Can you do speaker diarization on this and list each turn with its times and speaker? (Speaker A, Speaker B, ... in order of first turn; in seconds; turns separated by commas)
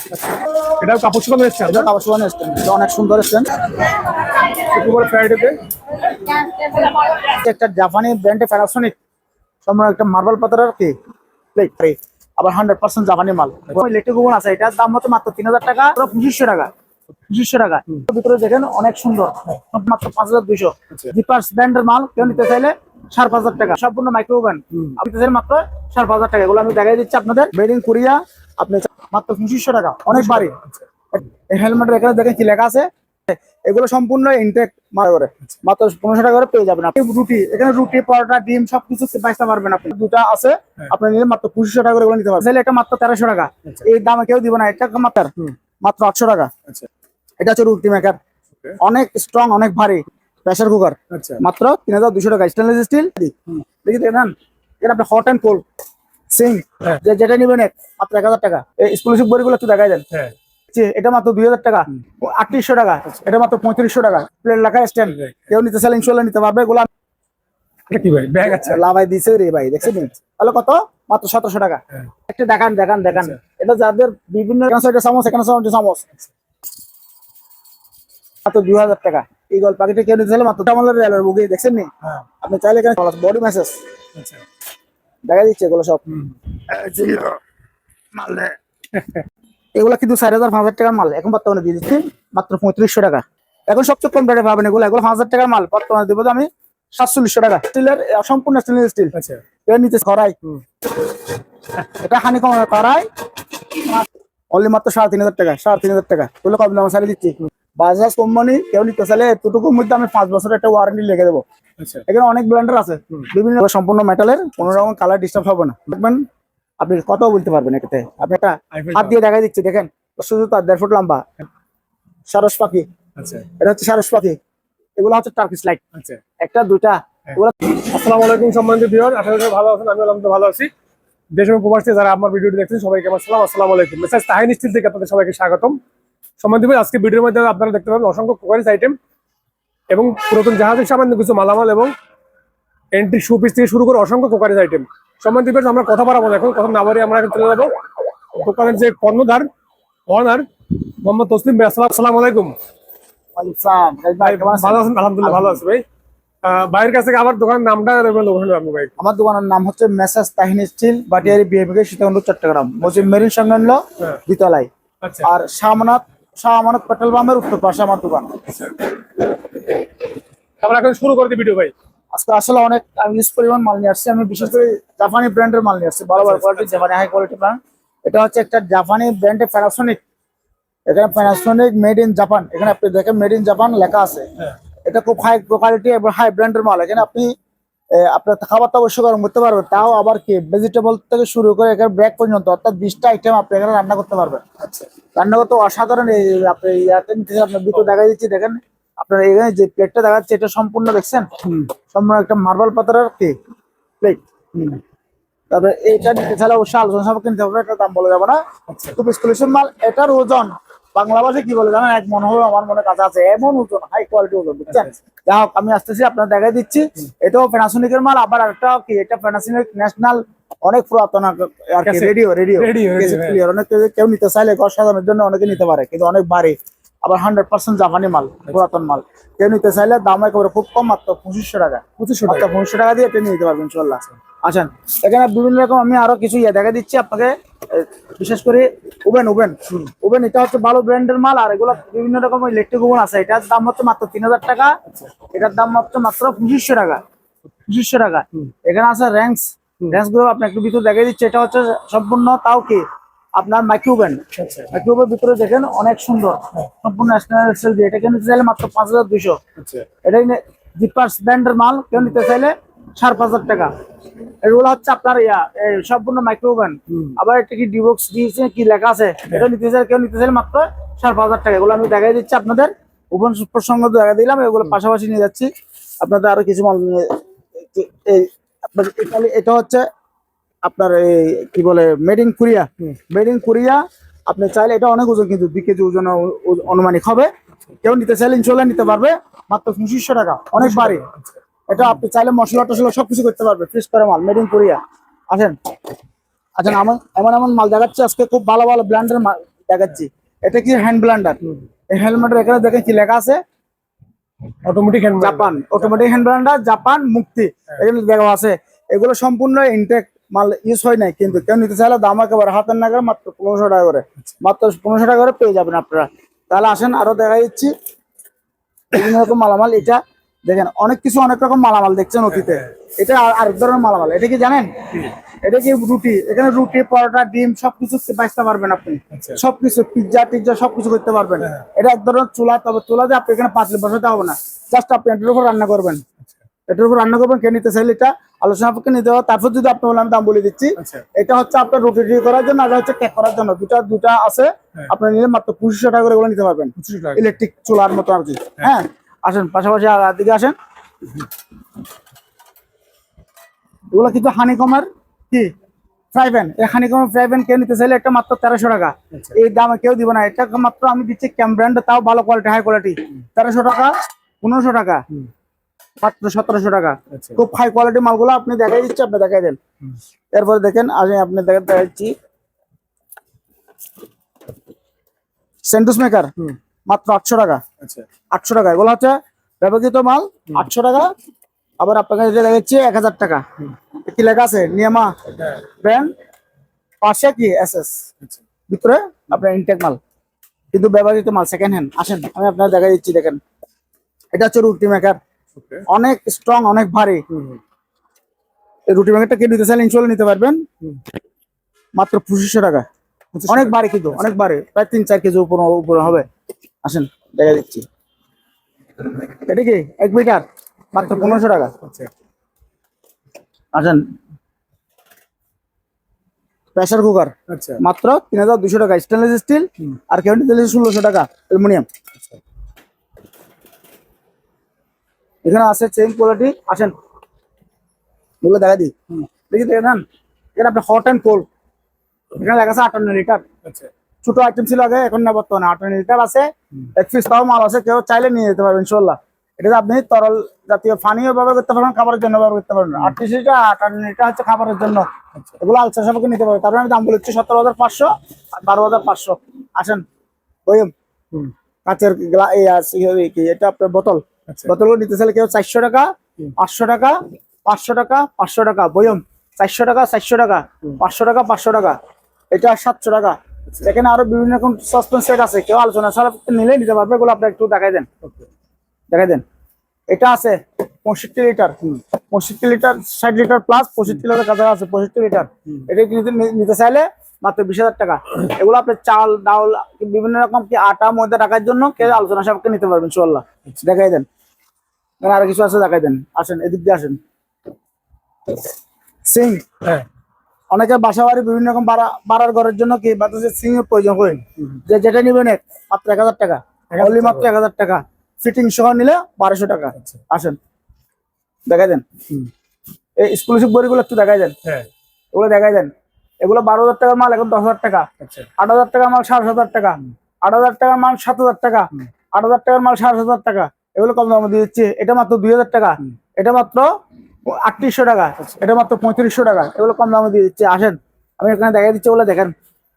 Speaker A: 0.1-1.9, Speaker B: 1.7-3.6, Speaker A: 4.5-5.6, Speaker B: 6.3-8.9, Speaker B: 9.6-10.9, Speaker B: 11.5-16.7, Speaker B: 17.3-30.6, Speaker A: 30.1-30.9, Speaker B: 31.1-46.5, Speaker B: 47.4-48.2, Speaker B: 48.8-55.6, Speaker A: 51.1-51.4, Speaker B: 56.3-60.0, Speaker B: 60.7-66.9, Speaker A: 65.1-65.5, Speaker A: 67.9-68.8, Speaker B: 68.4-76.0, Speaker A: 73.1-73.4, Speaker B: 78.4-81.9, Speaker B: 82.4-83.8, Speaker A: 84.2-84.4, Speaker B: 85.3-86.0, Speaker A: 86.1-86.3, Speaker B: 86.5-87.4, Speaker B: 88.2-88.5, Speaker A: 88.9-89.2, Speaker B: 89.7-99.1, Speaker A: 99.1-99.4, Speaker B: 99.7-100.3, Speaker B: 101.8-103.0, Speaker B: 103.8-111.4, Speaker A: 111.8-112.0, Speaker B: 112.1-116.2, Speaker B: 116.8-121.3, Speaker A: 118.7-119.2, Speaker B: 122.3-122.8, Speaker A: 123.2-123.5, Speaker B: 123.6-124.4, Speaker B: 125.0-125.8, Speaker A: 125.9-126.2, Speaker B: 126.4-127.8, Speaker A: 127.3-130.7, Speaker A: 131.3-135.8, Speaker A: 136.4-139.0, Speaker A: 139.9-141.9, Speaker A: 142.9-147.8, Speaker A: 148.3-149.5, Speaker A: 150.1-152.6, Speaker B: 153.3-155.6, Speaker A: 154.2-155.8, Speaker A: 156.4-158.9, Speaker B: 159.0-164.7, Speaker A: 162.8-163.1, Speaker A: 165.0-165.3, Speaker B: 165.2-168.4, Speaker A: 170.6-171.7, Speaker B: 172.1-180.0, Speaker A: 176.2-176.8, Speaker B: 180.9-184.3, Speaker B: 184.8-187.3, Speaker B: 187.9-194.4, Speaker A: 194.6-194.9, Speaker B: 195.1-201.3, Speaker A: 201.4-201.7, Speaker B: 201.9-203.3, Speaker B: 204.0-204.7, Speaker B: 205.5-208.4, Speaker A: 208.7-208.9, Speaker B: 208.9-244.8, Speaker A: 214.7-214.9, Speaker A: 221.8-223.4, Speaker A: 232.0-232.5, Speaker A: 244.9-245.1, Speaker B: 245.3-247.0, Speaker B: 247.7-252.8, Speaker B: 253.3-259.4, Speaker A: 254.3-254.7, Speaker A: 259.6-259.9, Speaker B: 260.0-263.7, Speaker B: 264.4-275.5, Speaker A: 266.9-267.2, Speaker B: 276.0-279.8, Speaker B: 280.6-287.3, Speaker B: 287.8-291.0, Speaker A: 290.5-291.4, Speaker B: 291.7-294.8, Speaker B: 295.3-295.6, Speaker B: 296.6-303.4, Speaker A: 304.6-306.2, Speaker B: 305.2-317.7, Speaker B: 318.9-324.7, Speaker A: 322.3-322.7, Speaker B: 325.4-336.0, Speaker A: 329.1-329.4, Speaker B: 336.7-350.5, Speaker A: 340.8-341.0, Speaker A: 346.8-347.2, Speaker B: 353.9-355.5, Speaker B: 356.1-365.0, Speaker A: 359.1-359.4, Speaker B: 366.0-369.6, Speaker A: 367.1-367.4, Speaker B: 370.3-372.1, Speaker B: 375.7-376.3, Speaker B: 376.9-377.6, Speaker A: 377.8-378.1, Speaker B: 378.3-381.1, Speaker B: 381.8-383.4, Speaker B: 384.1-385.1, Speaker B: 385.8-386.1, Speaker B: 387.0-387.9, Speaker B: 388.7-390.0, Speaker B: 390.7-393.4, Speaker B: 394.3-395.2, Speaker A: 395.5-395.8, Speaker B: 395.9-397.2, Speaker A: 397.3-397.6, Speaker B: 398.9-400.6, Speaker B: 402.0-402.8, Speaker A: 403.3-404.4, Speaker B: 403.5-406.3, Speaker B: 406.8-407.8, Speaker B: 409.1-411.7, Speaker A: 411.0-412.1, Speaker B: 413.7-414.0, Speaker B: 416.7-421.9, Speaker A: 417.5-417.8, Speaker B: 425.4-426.9, Speaker B: 428.4-428.9, Speaker B: 429.5-430.0, Speaker B: 430.6-431.4, Speaker B: 432.4-433.4, Speaker A: 433.6-433.9, Speaker B: 434.2-445.1, Speaker B: 445.6-450.0, Speaker B: 450.7-450.9, Speaker B: 451.9-462.0, Speaker B: 462.5-468.1, Speaker B: 469.1-469.4, Speaker B: 470.1-471.8, Speaker B: 472.3-484.3, Speaker B: 485.2-487.2, Speaker B: 489.3-489.6, Speaker B: 490.7-500.6, Speaker A: 496.9-497.5, Speaker A: 500.0-500.2, Speaker B: 501.7-502.0, Speaker B: 503.2-504.5, Speaker B: 505.3-505.9, Speaker B: 506.4-508.1, Speaker A: 508.2-508.5, Speaker B: 508.6-516.9, Speaker B: 517.5-522.5